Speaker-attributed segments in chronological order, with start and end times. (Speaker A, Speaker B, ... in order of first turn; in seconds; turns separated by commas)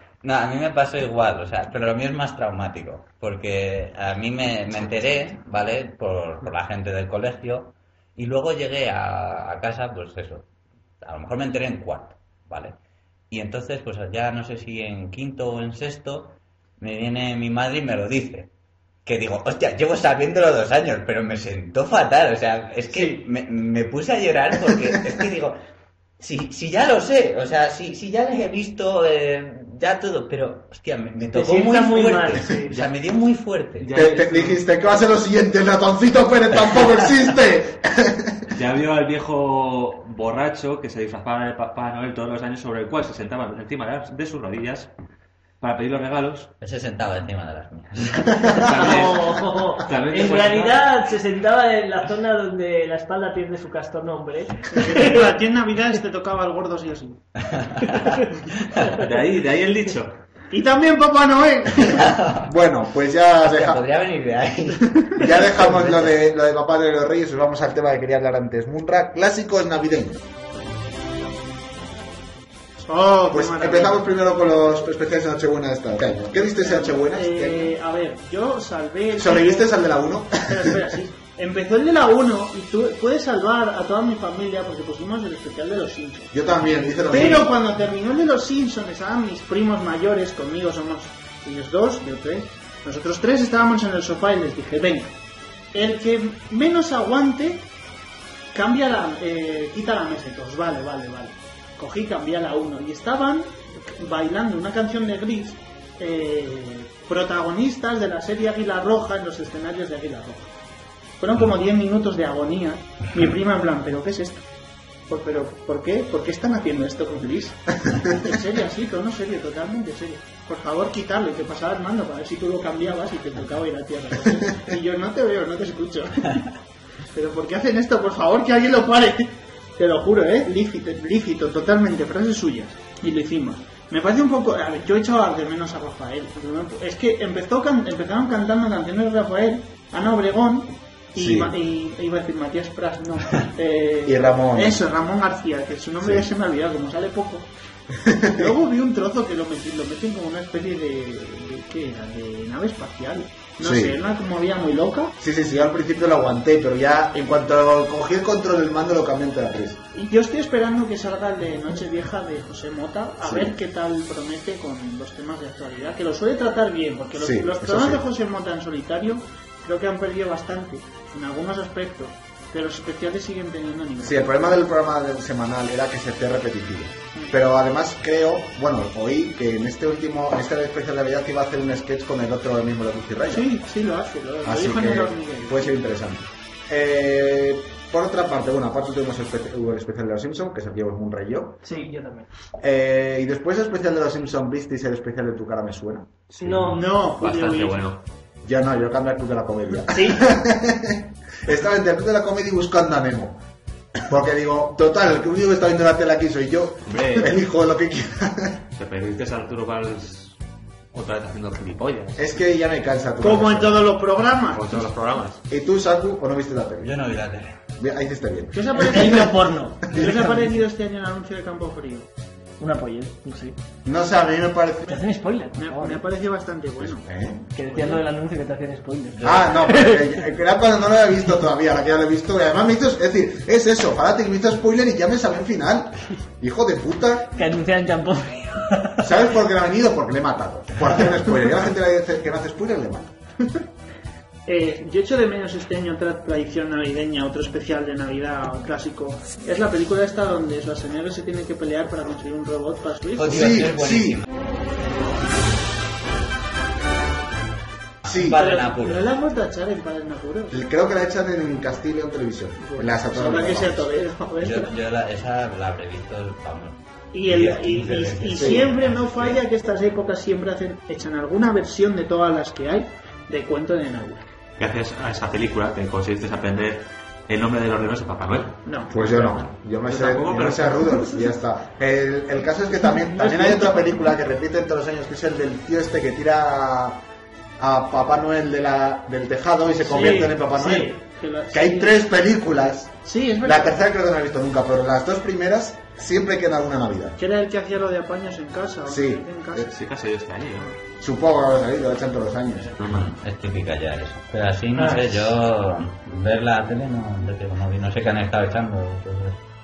Speaker A: 0.2-10.4, Speaker A: 11.0-12.8, Speaker A: 13.3-18.5, Speaker A: 19.0-25.6, Speaker A: 26.2-33.9, Speaker B: 31.3-32.7, Speaker C: 33.8-34.6, Speaker D: 33.9-38.5, Speaker C: 38.5-44.9, Speaker C: 45.6-46.5, Speaker A: 46.6-48.8, Speaker C: 48.5-50.9, Speaker B: 48.6-55.2, Speaker E: 54.7-57.2, Speaker A: 57.9-58.2, Speaker C: 58.9-60.2, Speaker E: 60.5-62.1, Speaker A: 61.9-62.5, Speaker D: 62.4-63.8, Speaker A: 63.4-66.2, Speaker D: 65.2-70.2, Speaker E: 72.8-74.0, Speaker D: 73.3-77.7, Speaker E: 76.5-79.8, Speaker D: 79.2-80.8, Speaker E: 80.4-86.3, Speaker D: 86.3-87.5, Speaker E: 87.1-95.1, Speaker E: 95.7-97.7, Speaker E: 98.5-110.5, Speaker E: 111.2-114.4, Speaker E: 115.1-126.5, Speaker D: 117.9-118.3, Speaker E: 127.1-147.5, Speaker D: 141.1-141.5, Speaker D: 144.0-144.8, Speaker D: 146.0-146.3, Speaker D: 148.0-148.5, Speaker E: 148.3-155.1, Speaker D: 153.6-154.0, Speaker D: 155.2-159.8, Speaker E: 159.9-174.5, Speaker D: 163.2-163.5, Speaker D: 167.2-168.0, Speaker D: 174.0-183.5, Speaker E: 183.3-185.8, Speaker D: 184.4-191.6, Speaker B: 191.6-192.3, Speaker D: 192.6-196.1, Speaker B: 196.4-196.8, Speaker C: 196.4-198.0, Speaker E: 196.7-197.8, Speaker D: 198.4-203.4, Speaker B: 199.9-200.2, Speaker D: 204.1-208.6, Speaker C: 206.8-207.4, Speaker C: 208.8-210.4, Speaker C: 210.9-212.3, Speaker D: 212.2-213.9, Speaker E: 213.2-214.7, Speaker C: 214.5-215.4, Speaker D: 215.5-216.9, Speaker A: 216.8-217.6, Speaker D: 217.8-219.3, Speaker E: 218.5-219.4, Speaker B: 218.7-220.5, Speaker E: 219.9-222.1, Speaker B: 222.6-223.6, Speaker D: 223.8-225.0, Speaker B: 224.9-226.0, Speaker E: 225.6-227.1, Speaker D: 226.8-227.5, Speaker B: 227.5-230.1, Speaker D: 229.2-237.3, Speaker B: 237.3-239.0, Speaker D: 239.0-243.1, Speaker E: 244.4-253.6, Speaker A: 253.2-254.2, Speaker D: 253.3-254.2, Speaker A: 258.0-259.1, Speaker D: 258.0-258.4, Speaker E: 258.3-260.6, Speaker D: 260.5-263.9, Speaker E: 262.6-264.7, Speaker A: 264.4-269.4, Speaker E: 267.1-274.2, Speaker D: 268.3-268.7, Speaker C: 274.6-281.3, Speaker E: 278.6-279.0, Speaker D: 278.9-287.0, Speaker D: 287.6-290.9, Speaker B: 289.8-290.9, Speaker E: 290.7-292.0, Speaker D: 291.5-297.2, Speaker E: 293.0-293.8, Speaker E: 297.2-299.7, Speaker D: 298.9-299.6, Speaker C: 299.6-300.7, Speaker D: 301.0-302.8, Speaker C: 302.8-303.1, Speaker A: 302.9-309.4